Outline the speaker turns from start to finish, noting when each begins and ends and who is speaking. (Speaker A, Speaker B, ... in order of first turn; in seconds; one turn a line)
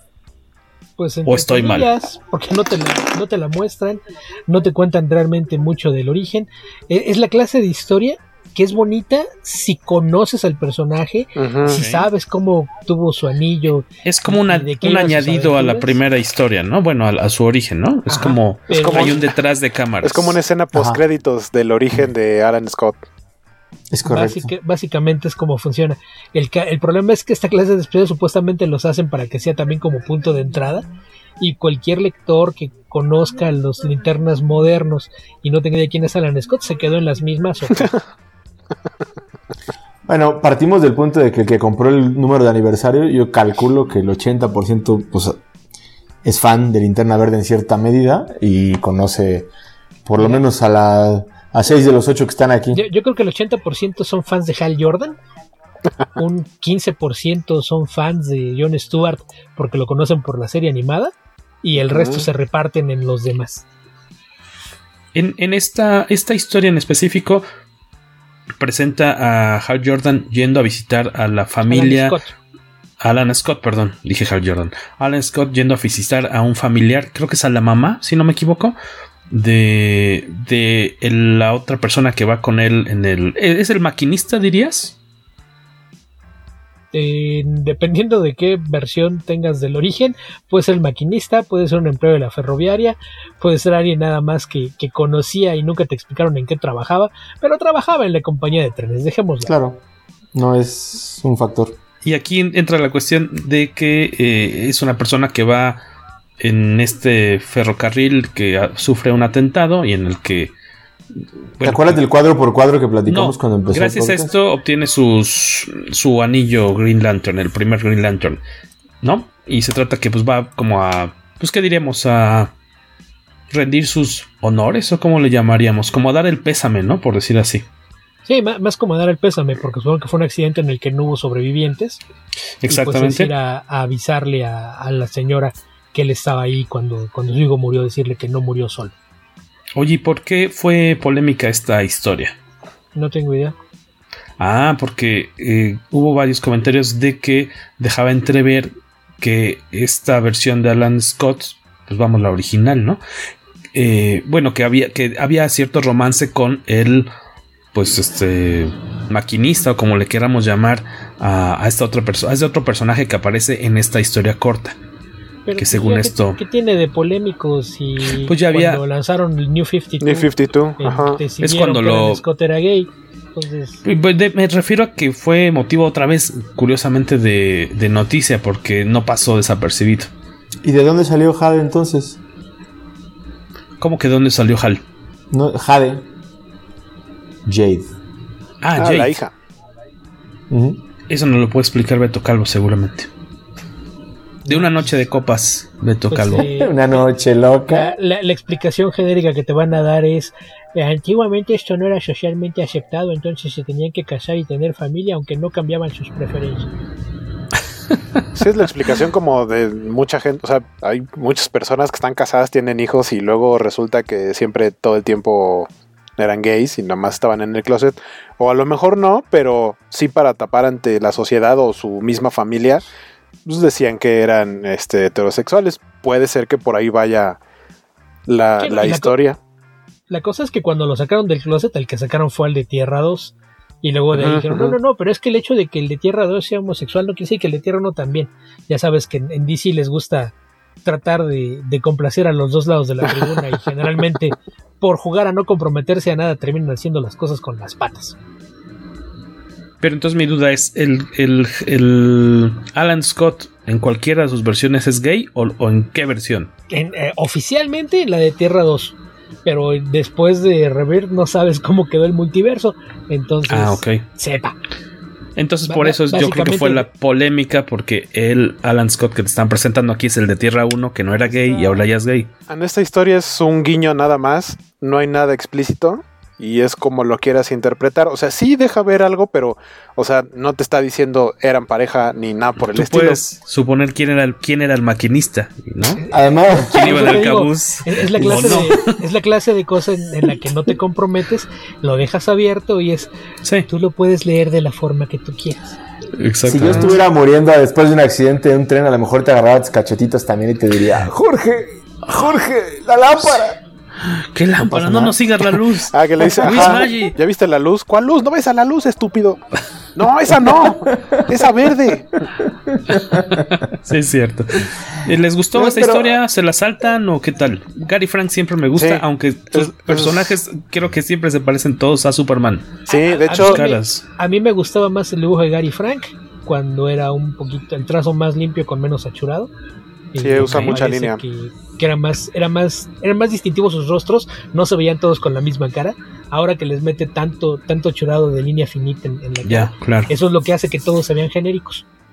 Speaker A: 1.0-15.9
Speaker B: 1.3-1.9
Speaker C: 11.4-11.8
Speaker B: 11.7-12.0
Speaker B: 14.1-20.4
Speaker C: 18.1-19.3
Speaker A: 18.7-19.1
Speaker C: 20.0-23.0
Speaker D: 20.7-21.0
Speaker D: 23.9-24.5
Speaker A: 24.1-30.9
Speaker A: 31.4-37.9
Speaker D: 40.1-45.4
Speaker D: 46.2-49.5
Speaker D: 50.1-52.8
Speaker A: 50.2-50.4
Speaker A: 52.7-55.2
Speaker A: 56.2-63.6
Speaker C: 61.8-62.3
Speaker B: 65.1-67.4
Speaker B: 68.6-72.2
Speaker A: 71.7-72.3
Speaker B: 73.0-78.8
Speaker B: 79.3-85.0
Speaker A: 86.9-99.5
Speaker D: 99.4-99.8
Speaker D: 100.3-101.8
Speaker B: 102.0-105.8
Speaker B: 106.4-110.5
Speaker B: 111.6-112.0
Speaker D: 111.6-114.3
Speaker B: 113.1-118.4
Speaker B: 119.0-122.5
Speaker B: 123.5-127.7
Speaker A: 128.3-132.0
Speaker B: 132.6-133.3
Speaker A: 132.7-138.9
Speaker B: 139.8-142.4
Speaker A: 142.9-143.6
Speaker B: 144.4-153.0
Speaker B: 153.8-157.1
Speaker B: 157.7-164.8
Speaker A: 165.5-173.8
Speaker B: 165.6-166.4
Speaker B: 168.2-168.8
Speaker C: 170.0-171.2
Speaker B: 171.4-172.2
Speaker B: 173.8-180.1
Speaker D: 180.6-182.2
Speaker B: 183.8-184.8
Speaker D: 185.3-186.1
Speaker D: 187.4-187.9
Speaker B: 188.6-189.2
Speaker C: 188.8-189.3
Speaker D: 190.5-190.8
Speaker B: 191.1-193.1
Speaker B: 194.5-196.5
Speaker A: 196.1-206.7
Speaker D: 196.4-197.9
Speaker C: 208.4-222.8
Speaker C: 223.5-227.4
Speaker C: 228.3-229.4
Speaker A: 228.6-229.2
Speaker A: 230.1-240.3
Speaker C: 234.1-234.8
Speaker A: 240.8-248.2
Speaker B: 249.8-256.5
Speaker A: 256.7-264.6
Speaker B: 263.5-264.0
Speaker B: 265.4-272.3
Speaker A: 265.7-266.9
Speaker C: 272.5-283.2
Speaker B: 282.6-286.0
Speaker A: 286.0-293.1
Speaker D: 286.1-286.9
Speaker B: 286.7-288.9
Speaker D: 288.1-288.7
Speaker A: 293.7-295.8
Speaker B: 296.2-297.0
Speaker D: 296.5-303.6
Speaker B: 303.2-303.4
Speaker B: 304.0-307.2
Speaker D: 304.6-305.2
Speaker C: 305.9-309.4
Speaker D: 306.4-306.9
Speaker C: 310.0-312.2
Speaker D: 310.7-311.2
Speaker D: 312.5-313.4
Speaker B: 313.2-322.8
Speaker D: 315.5-316.2
Speaker C: 318.8-320.3
Speaker A: 322.9-329.5
Speaker C: 322.9-323.6
Speaker B: 323.3-324.0
Speaker A: 330.1-341.9
Speaker C: 330.2-331.2
Speaker B: 339.4-340.1